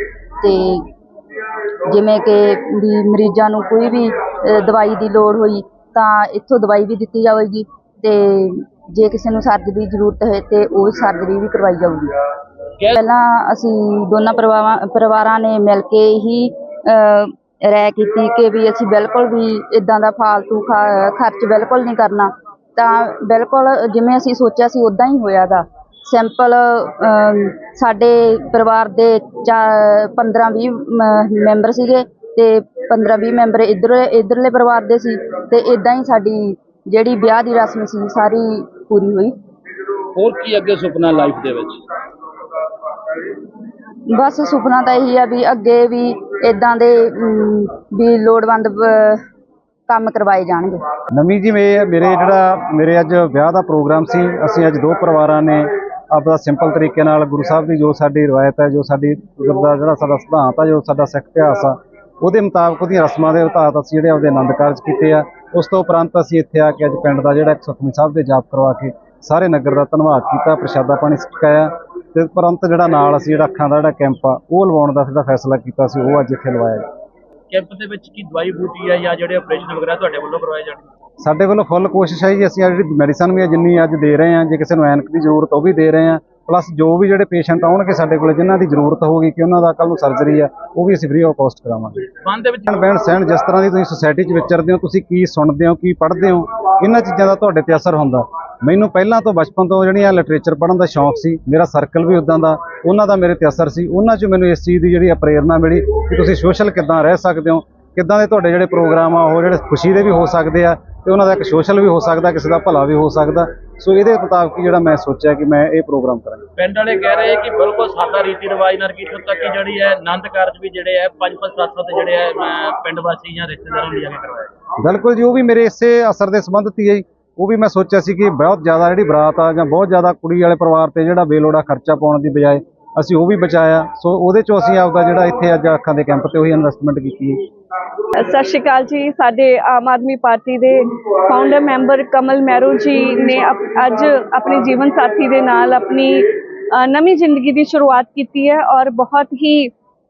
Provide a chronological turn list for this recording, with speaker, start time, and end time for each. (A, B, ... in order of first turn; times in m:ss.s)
0:00.4-0:00.9 A
0:01.9-0:12.1 A
0:13.0-0:39.4 A
0:40.2-0:41.8 B
0:44.1-0:49.2 A
0:49.9-0:50.8 A
0:51.1-1:16.9 C
1:17.5-1:20.9 B
1:21.2-1:32.1 C
1:32.2-1:32.7 B
1:32.7-1:56.5 C
1:56.6-2:04.5 B
2:04.8-2:17.4 C
2:18.1-2:29.7 D